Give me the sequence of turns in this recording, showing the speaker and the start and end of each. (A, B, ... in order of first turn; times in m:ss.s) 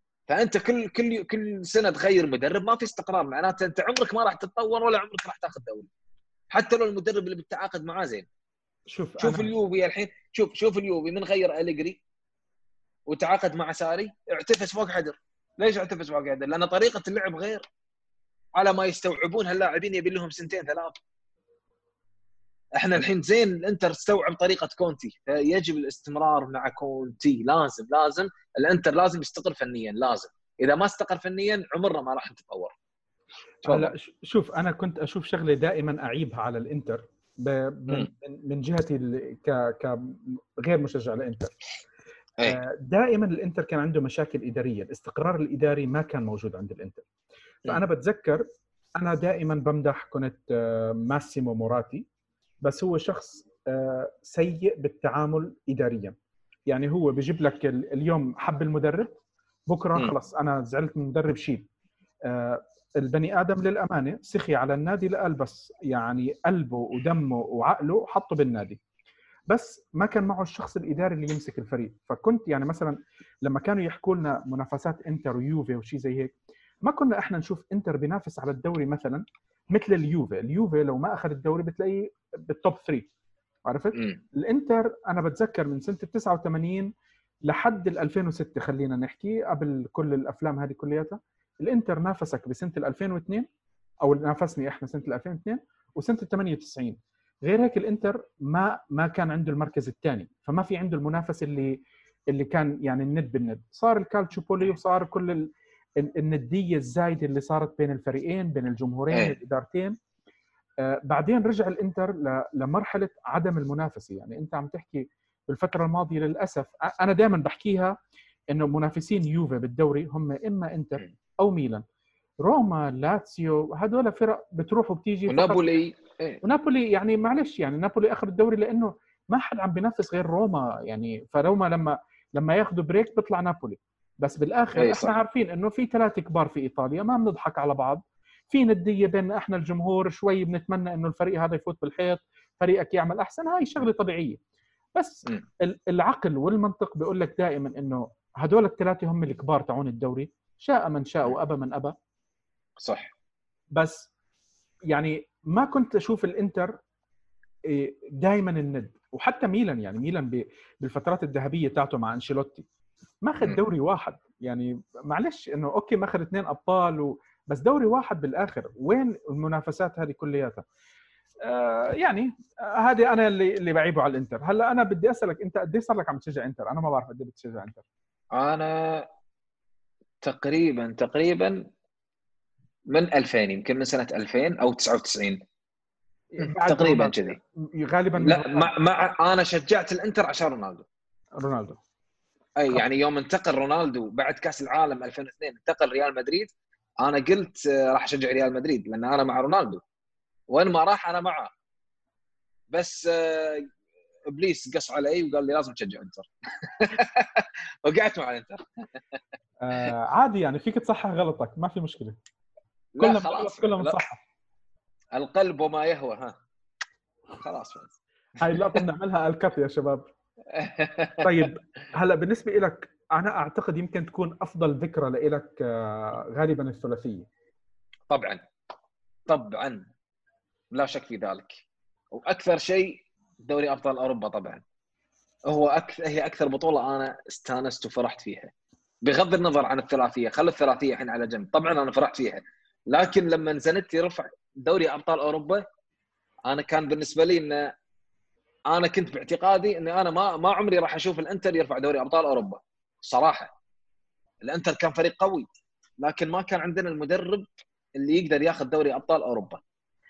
0:00.3-0:05.9 A
0:06.5-0:08.2 A
0:08.9-0:09.5 B
0:09.2-0:12.0 A
0:13.1-0:17.6 A
0:18.6-0:20.9 A
0:22.8-0:32.7 A
0:33.6-0:33.9 A
0:33.6-0:41.5 B
0:42.5-0:47.0 B
0:47.7-0:48.4 B
0:49.0-0:52.0 B
0:52.6-0:56.1 B
0:56.7-1:01.6 B
1:02.3-1:08.8 B
1:09.5-1:16.3 B
1:16.8-1:23.1 B
1:23.6-1:26.9 B
1:23.9-1:24.2 A
1:27.4-1:33.4 B
1:34.0-1:41.8 B
1:42.3-1:50.0 B
1:49.1-1:49.4 A
1:50.8-1:57.9 B
1:58.5-2:01.8 B
2:02.4-2:05.6 B
2:05.3-2:06.4 A
2:06.4-2:24.4 B
2:14.8-2:15.2 A
2:25.0-2:31.9 B
2:32.8-2:33.1 A
2:33.7-2:34.1 B
2:34.9-2:36.7 B
2:37.7-2:42.6 B
2:43.2-2:50.6 B
2:51.4-2:57.8 B
2:58.3-2:59.1 A
3:00.2-3:01.6 A
3:02.9-3:05.4 A
3:06.3-3:08.7 B
3:06.4-3:07.4 A
3:08.2-3:10.8 A
3:11.4-3:11.8 B
3:12.6-3:19.8 A
3:20.5-3:21.5 A
3:22.7-3:23.7 A
3:24.3-3:28.6 A
3:29.6-3:32.2 B
3:33.0-3:34.0 A
3:33.0-3:34.2 B
3:35.1-3:36.4 A
3:37.4-3:38.0 A
3:38.4-3:40.1 B
3:38.5-3:38.8 A
3:40.5-3:41.3 A
3:41.2-3:47.3 B
3:48.1-3:48.4 A
3:49.3-3:49.9 A
3:50.7-3:51.6 A
3:52.1-3:54.6 A
3:55.5-3:58.5 A
3:59.0-4:05.6 A
4:06.5-4:07.7 A
4:08.7-4:13.5 A
4:14.4-4:15.5 A
4:16.0-4:17.4 A
4:18.0-4:19.6 A